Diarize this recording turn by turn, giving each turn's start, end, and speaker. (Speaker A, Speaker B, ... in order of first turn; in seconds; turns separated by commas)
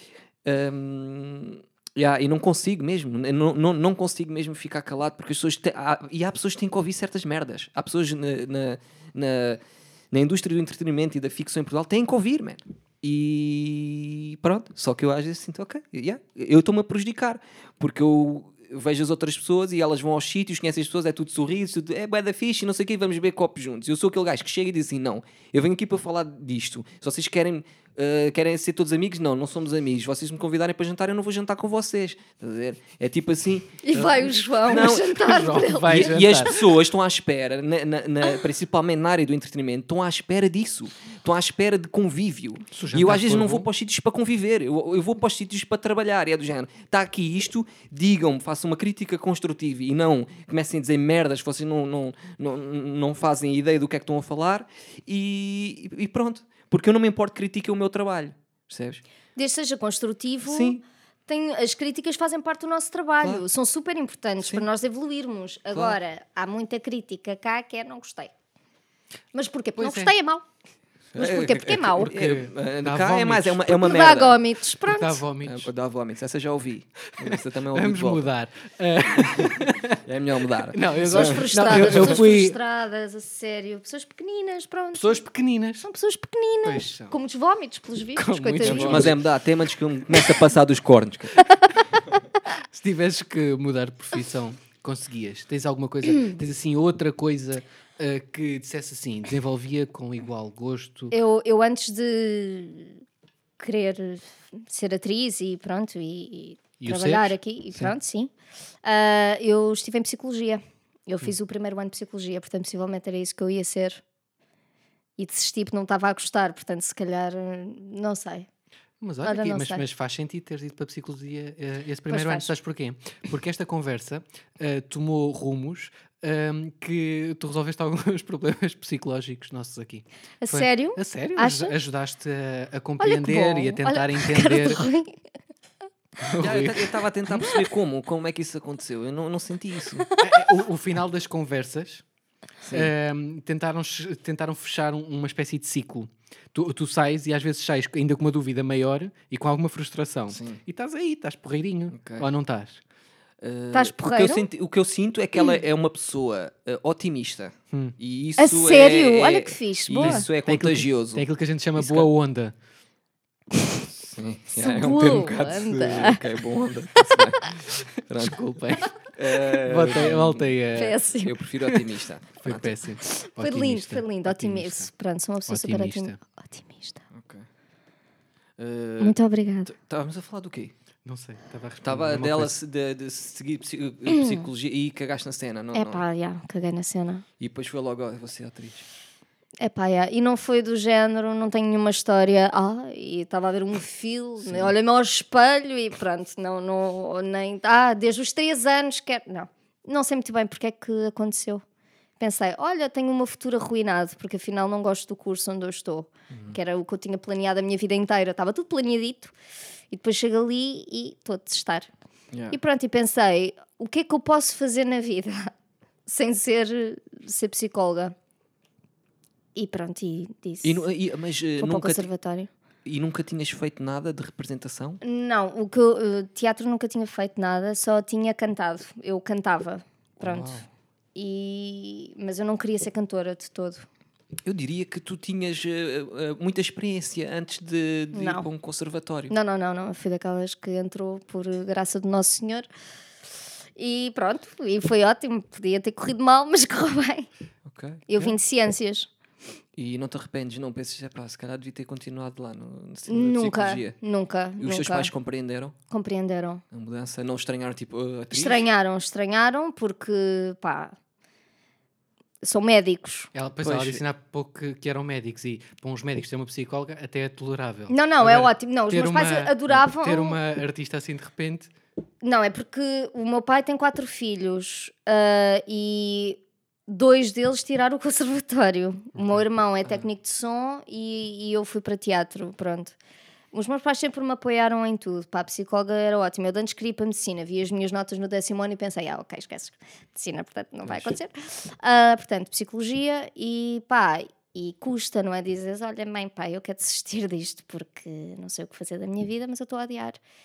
Speaker A: 0.4-33.8, Speaker B: 33.8-36.6, Speaker C: 33.9-36.5, Speaker A: 34.6-35.2, Speaker A: 35.7-59.0, Speaker C: 42.7-43.7, Speaker B: 59.4-68.3, Speaker A: 60.4-60.8, Speaker B: 69.3-70.4, Speaker C: 69.8-70.1, Speaker A: 71.1-74.4, Speaker B: 71.2-72.1, Speaker C: 71.8-73.8, Speaker B: 73.7-75.2, Speaker C: 74.8-75.7, Speaker A: 75.4-78.3, Speaker C: 77.2-80.0, Speaker A: 79.2-82.2, Speaker C: 80.6-82.6, Speaker B: 81.0-85.2, Speaker C: 84.9-85.9, Speaker B: 85.8-89.2, Speaker C: 86.6-87.2, Speaker C: 88.1-89.2, Speaker A: 88.6-91.5, Speaker C: 92.7-101.2, Speaker B: 96.1-96.4, Speaker B: 101.1-103.0, Speaker B: 103.6-108.3, Speaker C: 106.8-107.9, Speaker B: 108.8-114.0, Speaker B: 115.2-118.5, Speaker C: 119.0-134.8, Speaker B: 119.2-119.8, Speaker B: 122.1-122.5, Speaker B: 130.4-131.7, Speaker B: 133.0-135.2, Speaker C: 136.2-136.9, Speaker A: 136.3-140.1, Speaker B: 140.1-140.5, Speaker C: 140.2-142.0, Speaker A: 142.6-142.9, Speaker C: 142.7-152.8, Speaker A: 150.3-150.6, Speaker A: 151.9-152.3, Speaker A: 153.4-161.2, Speaker B: 153.7-154.5, Speaker C: 157.7-157.9, Speaker B: 158.4-160.2, Speaker C: 160.0-162.5, Speaker A: 161.8-162.1, Speaker A: 163.9-168.4, Speaker B: 164.5-166.4, Speaker B: 166.9-167.3, Speaker C: 168.2-168.9, Speaker A: 169.0-170.6, Speaker C: 169.5-171.0, Speaker B: 170.7-171.8, Speaker A: 171.2-172.7, Speaker C: 172.4-174.9, Speaker B: 173.0-177.0, Speaker C: 175.5-176.2, Speaker A: 177.1-177.5, Speaker A: 178.6-180.7, Speaker B: 179.0-179.7, Speaker C: 181.0-182.6, Speaker A: 181.8-186.0, Speaker B: 184.1-184.5, Speaker B: 185.7-187.2, Speaker A: 187.4-188.8, Speaker B: 189.6-201.6, Speaker A: 194.4-194.7, Speaker B: 202.2-209.3, Speaker B: 209.9-211.9, Speaker B: 212.5-215.5, Speaker B: 216.1-218.1, Speaker B: 219.5-220.9, Speaker A: 220.6-222.1, Speaker B: 221.6-222.5, Speaker A: 222.8-225.0, Speaker B: 225.0-230.6, Speaker A: 230.2-230.7, Speaker B: 231.1-233.8, Speaker A: 234.4-239.3, Speaker B: 238.1-238.4, Speaker B: 239.3-242.7, Speaker B: 243.8-247.3, Speaker A: 247.7-248.3, Speaker B: 248.1-249.1, Speaker A: 249.8-253.9, Speaker B: 253.1-255.1, Speaker A: 254.6-255.7, Speaker B: 255.9-256.6, Speaker A: 256.7-258.7, Speaker B: 258.3-260.9, Speaker B: 262.4-263.3, Speaker C: 263.3-271.7, Speaker A: 263.6-264.0, Speaker B: 267.9-270.4, Speaker B: 272.2-282.9, Speaker B: 283.5-300.2